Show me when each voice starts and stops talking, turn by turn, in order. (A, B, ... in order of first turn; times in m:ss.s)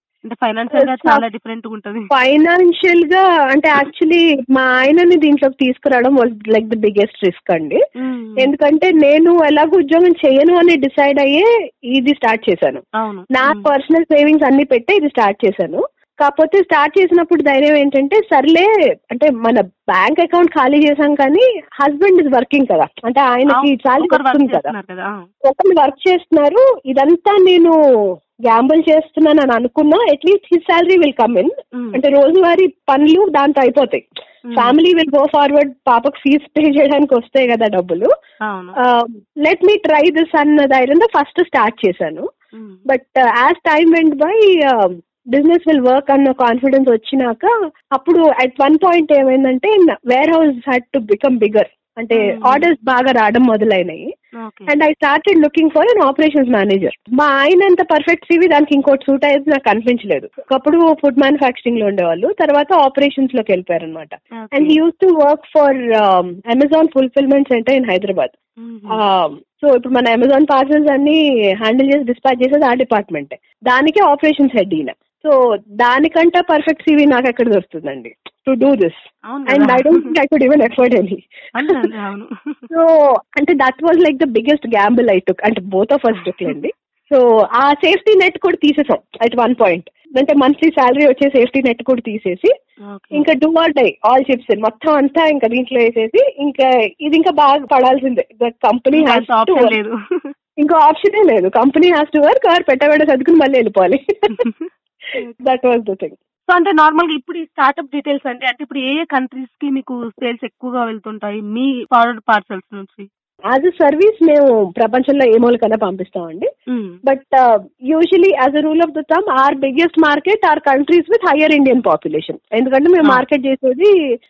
0:00.2-0:02.1 A
0:00.7-0:01.2 B
0:02.1-0:07.8 B
0:08.0-0:08.5 A
0:08.4-0:24.7 B
0:13.0-0:13.7 A
0:23.5-0:25.2 A
0:25.4-0:27.7 B
0:28.4-0:34.0 B
0:34.5-0:34.8 A
0:34.5-0:38.1 B
0:38.5-0:38.8 A
0:38.8-0:42.2 B
0:42.5-0:42.8 A
0:42.9-0:54.1 B
0:52.1-0:52.7 A
0:54.4-0:54.7 A
0:54.7-1:08.3 B
1:04.4-1:04.8 A
1:08.6-1:09.0 A
1:08.9-1:21.9 B
1:19.3-1:20.1 A
1:21.6-1:22.6 A
1:22.7-1:32.5 B
1:32.9-1:33.3 A
1:33.1-1:39.8 B
1:38.9-1:39.9 A
1:40.6-1:44.4 B
1:45.1-1:46.2 B
1:46.5-1:53.0 A
1:53.5-1:56.5 B
1:56.7-1:57.0 A
1:57.0-2:03.9 B